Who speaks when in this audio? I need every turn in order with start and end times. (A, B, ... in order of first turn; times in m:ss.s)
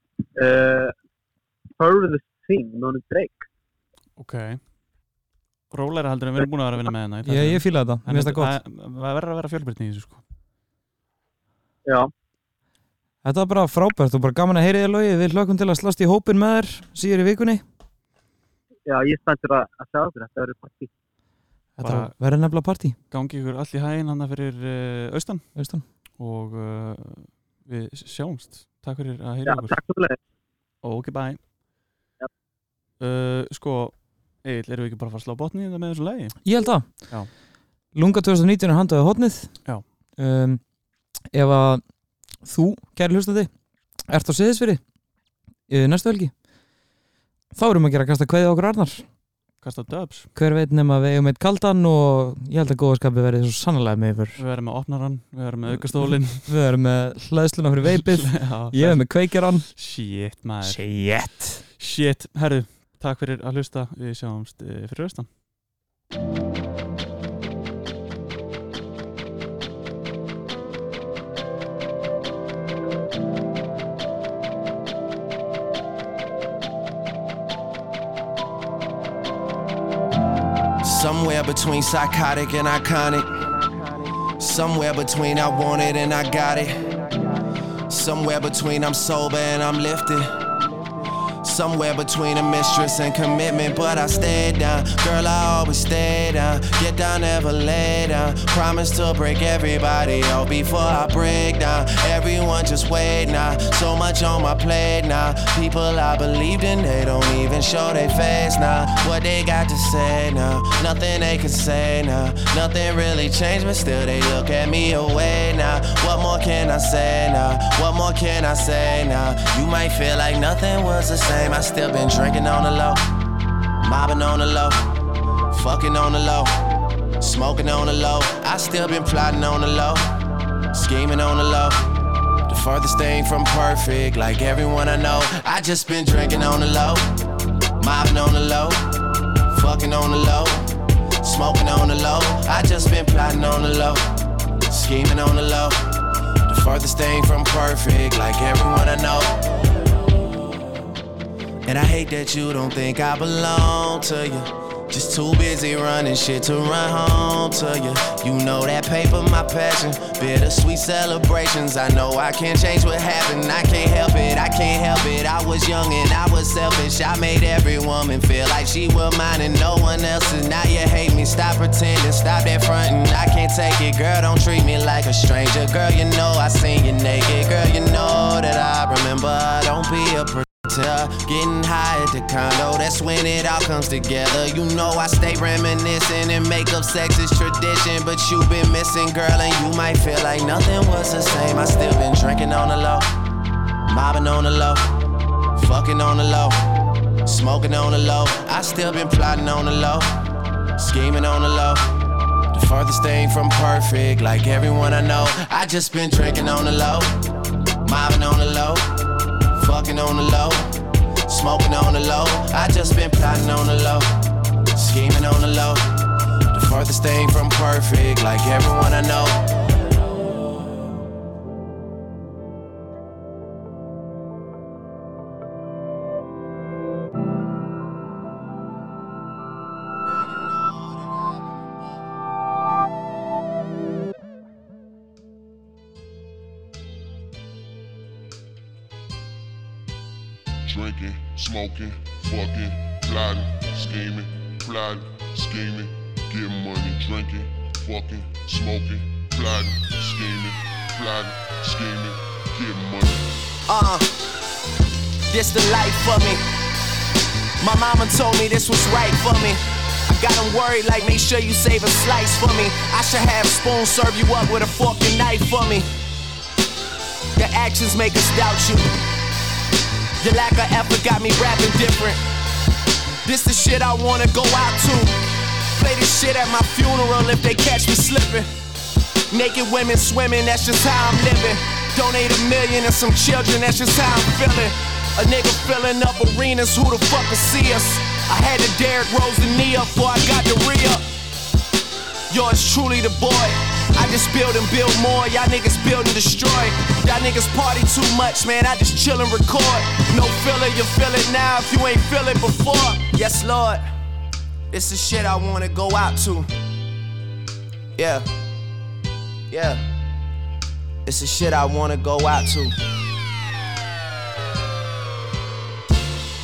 0:00.4-0:00.9 A
0:01.8-0:03.4 A
0:04.2-0:04.6 B
0:05.7-0:10.2 B
0:07.2-0:08.6 C
0:11.8-0:12.1 A
0:13.2-0:17.6 C
0:18.8-0:20.9 A
0:21.8-0:23.0 C
0:21.8-0:22.1 B
0:23.1-0:25.4 B
0:25.6-0:25.8 C
0:26.2-0:29.8 B
0:29.4-0:30.2 A
0:30.8-0:31.4 B
0:33.0-0:36.4 B
0:36.4-0:37.1 C
0:37.9-0:39.6 C
0:40.2-0:40.6 C
0:41.3-0:41.8 C
0:42.4-0:43.5 C
0:44.1-0:44.8 C
0:45.7-0:46.3 C
0:47.5-0:49.1 C
0:49.6-0:50.3 B
0:50.4-0:54.4 C
0:54.4-0:56.5 B
0:55.7-0:59.7 C
0:57.9-1:00.8 B
1:00.6-1:01.6 C
1:01.8-1:05.3 B
1:20.8-1:23.4 D
1:24.4-1:27.0 D
1:27.9-1:30.4 D
1:31.4-2:03.1 D
2:03.8-2:04.9 D
2:05.5-2:06.6 D
2:07.2-2:10.1 D
2:10.7-2:11.8 D
2:12.5-2:17.2 D
2:17.8-2:18.9 D
2:19.5-2:29.5 D
2:31.6-3:13.1 D
3:13.9-3:14.9 D
3:15.6-3:16.6 D
3:17.2-3:20.2 D
3:20.8-3:21.9 D
3:22.5-3:27.2 D
3:27.8-3:28.9 D
3:29.6-3:34.1 D
3:34.7-3:35.9 D
3:36.5-3:39.4 D
4:00.6-4:13.4 E
4:13.7-4:14.1 D
4:15.3-4:16.4 D
4:17.6-4:25.9 D
4:27.4-4:29.0 D
4:30.2-4:32.2 D
4:33.2-4:38.5 D
4:39.3-4:51.1 D
4:52.3-5:03.9 D
5:04.7-5:06.5 D
5:08.0-5:08.3 D
5:09.5-5:09.8 D
5:11.1-5:12.8 D